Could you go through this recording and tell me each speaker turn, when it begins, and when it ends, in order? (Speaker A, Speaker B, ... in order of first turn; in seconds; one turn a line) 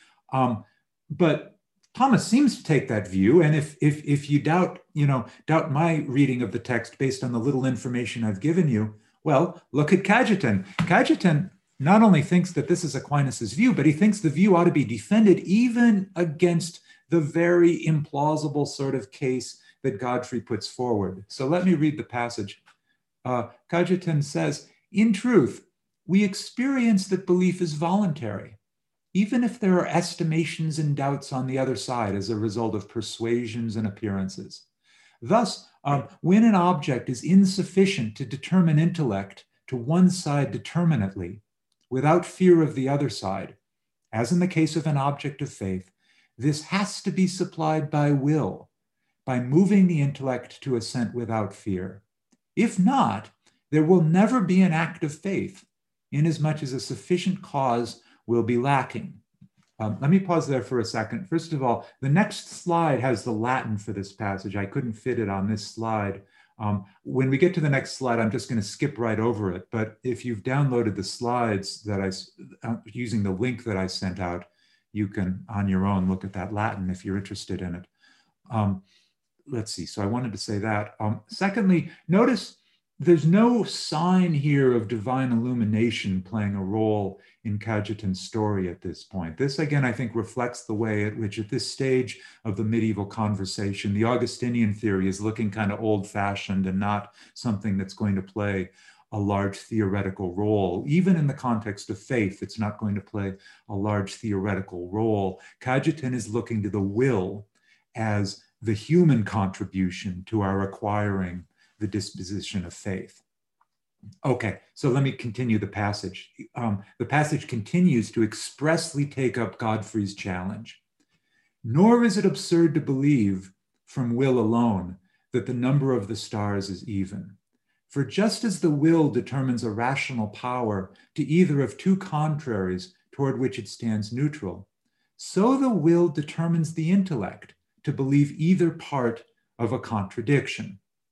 Speaker A: 0.3-22.6
Speaker A: 23.2-28.6
Speaker A: 29.1-34.6
Speaker A: 35.2-43.6
Speaker A: 44.1-48.7
Speaker A: 49.3-52.0
Speaker A: 52.6-59.2
Speaker A: 59.8-77.9
Speaker A: 78.5-78.8
Speaker A: 79.5-113.2
Speaker A: 114.2-120.8
Speaker A: 121.6-127.4
Speaker A: 127.9-134.7
Speaker A: 135.2-140.8